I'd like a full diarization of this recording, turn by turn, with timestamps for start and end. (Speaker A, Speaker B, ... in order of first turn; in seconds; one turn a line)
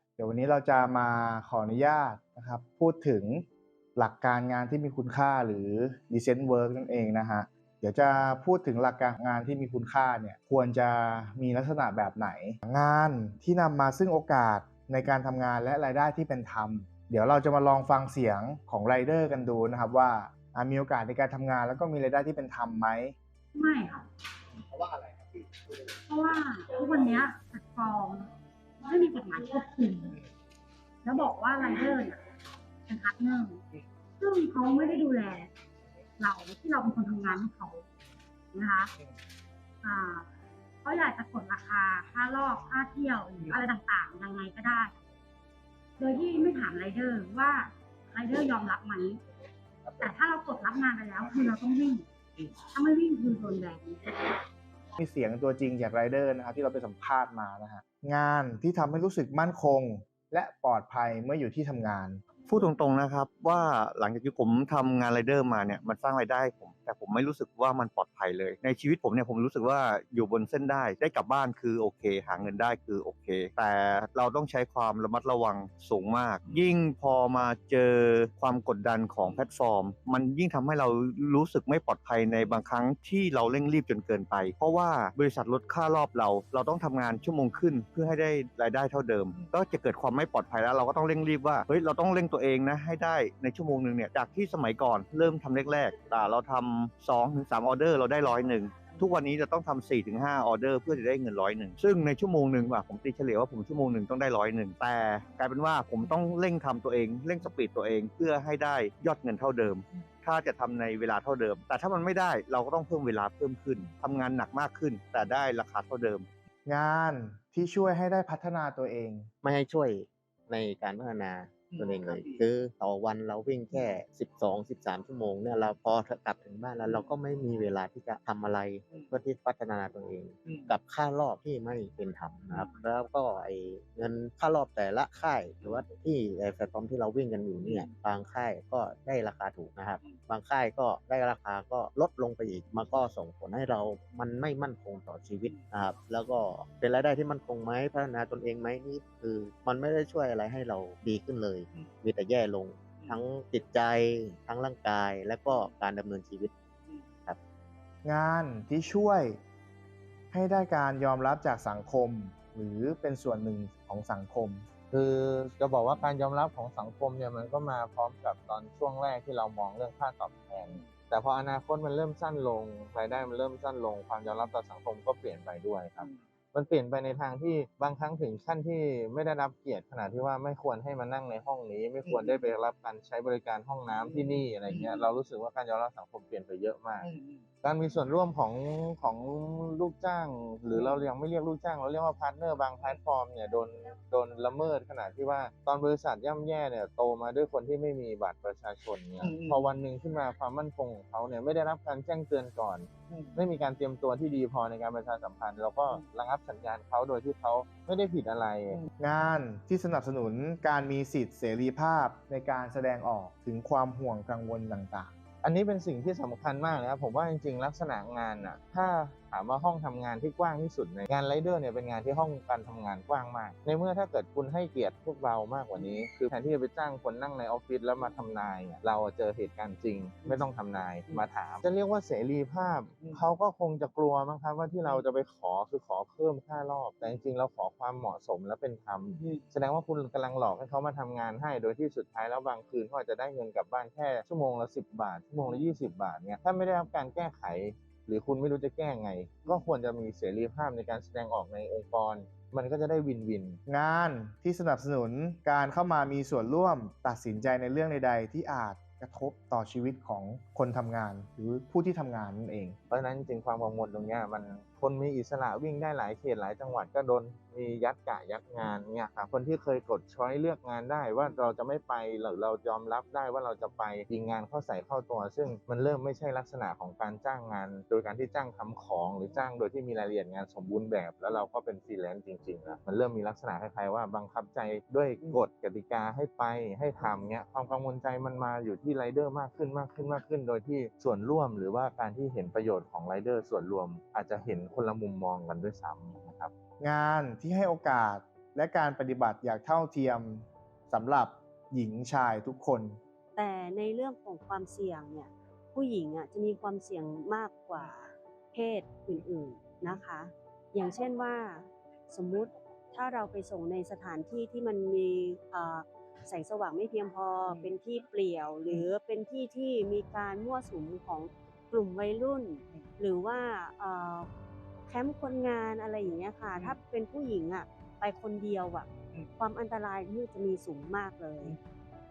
Speaker A: 0.2-3.5
Speaker A: 4.0-23.1
Speaker B: 23.6-24.1
Speaker B: 26.1-28.3
Speaker B: 28.8-30.2
Speaker B: 31.0-32.2
Speaker B: 32.9-33.6
Speaker B: 34.2-35.5
Speaker B: 36.2-37.8
Speaker B: 38.5-38.9
Speaker B: 39.8-40.3
Speaker B: 40.8-44.9
Speaker B: 46.0-49.2
Speaker B: 49.9-52.1
Speaker B: 52.7-54.4
Speaker A: 55.0-62.2
Speaker C: 62.5-116.3
Speaker A: 116.7-119.3
Speaker D: 119.4-156.5
Speaker A: 158.0-159.4
Speaker A: 160.3-164.7
Speaker E: 164.9-187.1
Speaker E: 187.6-208.8
Speaker A: 209.0-215.1
Speaker E: 215.4-253.6
Speaker A: 253.7-262.8
Speaker E: 262.9-296.5
Speaker A: 296.8-303.0
Speaker F: 303.4-324.3
Speaker F: 324.9-331.6